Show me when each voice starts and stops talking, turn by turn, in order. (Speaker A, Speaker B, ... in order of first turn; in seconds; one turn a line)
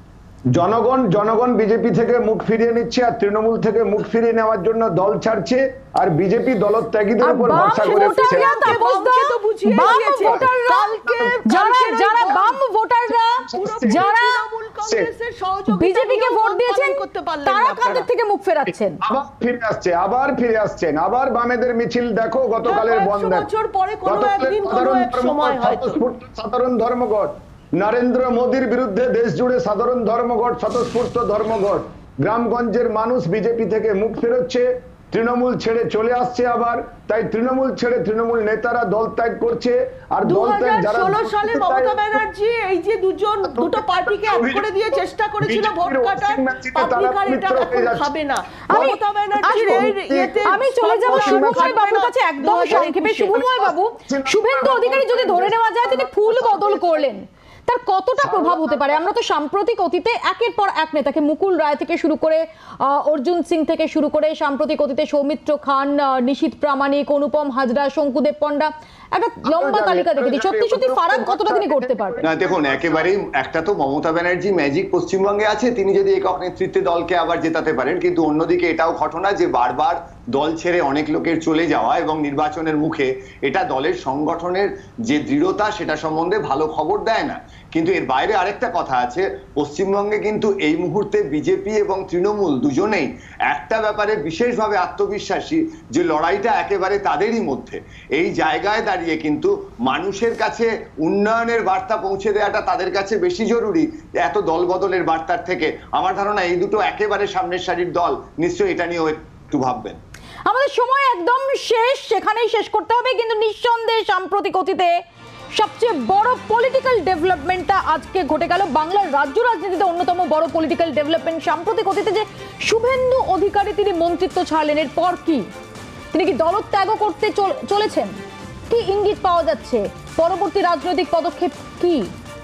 Speaker A: 0.5-8.7
Speaker B: 7.2-14.4
Speaker C: 7.7-12.6
Speaker A: 11.0-11.4
Speaker A: 13.4-14.0
Speaker C: 13.5-18.1
Speaker B: 15.7-19.0
Speaker A: 19.1-23.5
Speaker C: 22.6-26.0
Speaker A: 24.1-42.2
Speaker C: 40.2-53.4
Speaker A: 43.5-48.1
Speaker B: 48.7-72.2
Speaker A: 49.6-50.4
Speaker A: 51.2-51.7
Speaker A: 52.8-57.1
Speaker A: 58.2-59.1
Speaker A: 69.5-73.1
Speaker D: 72.2-110.0
Speaker B: 110.5-115.0
Speaker B: 115.5-125.5
Speaker B: 126.1-128.2
Speaker B: 128.7-132.1